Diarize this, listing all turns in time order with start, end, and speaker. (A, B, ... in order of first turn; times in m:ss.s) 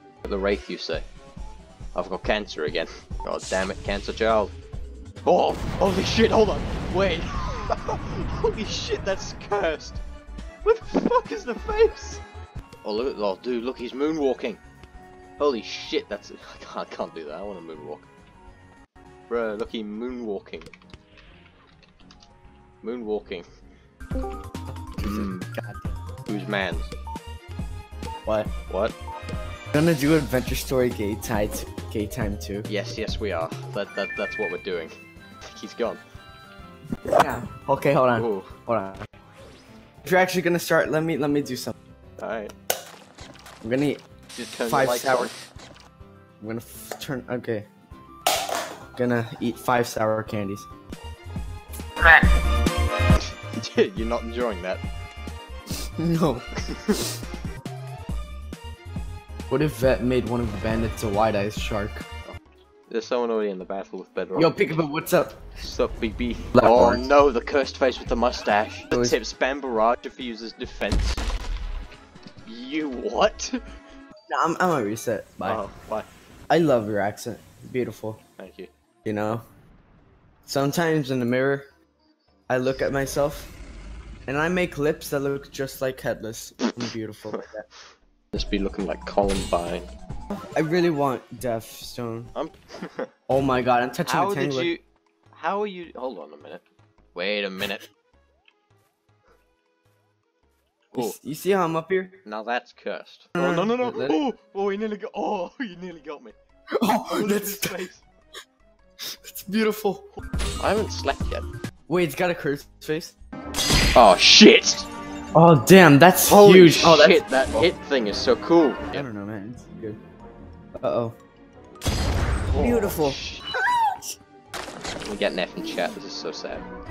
0:00.2-0:01.0 A
0:02.0-0:04.5 A
0:05.2-0:10.0 A
0:10.6-0:12.2 A
0:12.8-0:14.6 A
0:15.4-0:18.1 A
0:19.3-0:20.7 A
0:22.8-0:23.5 A
0:25.0-0:25.9 B
0:25.0-0:25.5 A
0:26.3-0:26.9 A
0:28.3-0:28.5 B
0:28.7-0:29.0 A
0:29.7-0:32.7 B
0:32.7-0:34.9 A
0:35.6-0:36.0 A
0:37.1-0:39.1 B
0:38.2-0:38.5 A
0:40.0-0:41.8 B
0:42.2-0:42.5 A
0:43.6-0:44.0 B
0:44.3-0:45.3 A
0:44.7-0:45.3 B
0:46.4-0:47.7 B
0:48.9-0:50.7 B
0:52.0-0:52.2 A
0:53.6-0:54.8 A
0:56.0-0:56.5 B
0:56.7-0:57.0 A
0:59.5-1:02.0 B
1:02.9-1:04.8 A
1:04.4-1:05.4 B
1:05.6-1:11.2 A
1:06.5-1:07.0 B
1:08.9-1:09.2 B
1:12.5-1:13.6 A
1:14.3-1:15.6 B
1:15.4-1:16.1 A
1:16.5-1:18.2 B
1:18.4-1:18.7 A
1:19.1-1:19.4 B
1:20.5-1:21.7 B
1:22.5-1:23.5 B
1:24.3-1:27.6 B
1:28.3-1:29.9 A
1:30.6-1:32.3 B
1:32.3-1:33.1 A
1:33.3-1:34.7 B
1:34.0-1:36.6 A
1:37.2-1:37.9 A
1:41.0-1:42.2 B
1:42.3-1:46.4 A
1:43.4-1:44.2 B
1:46.8-1:47.8 B
1:46.9-1:48.0 A
1:49.1-1:50.1 B
1:50.6-1:51.5 A
1:51.9-1:53.2 B
1:54.0-1:54.9 A
1:55.4-1:57.7 B
1:56.2-1:59.1 A
1:58.9-2:00.0 B
2:00.8-2:01.2 B
2:02.5-2:03.5 A
2:02.6-2:03.2 B
2:05.1-2:06.7 A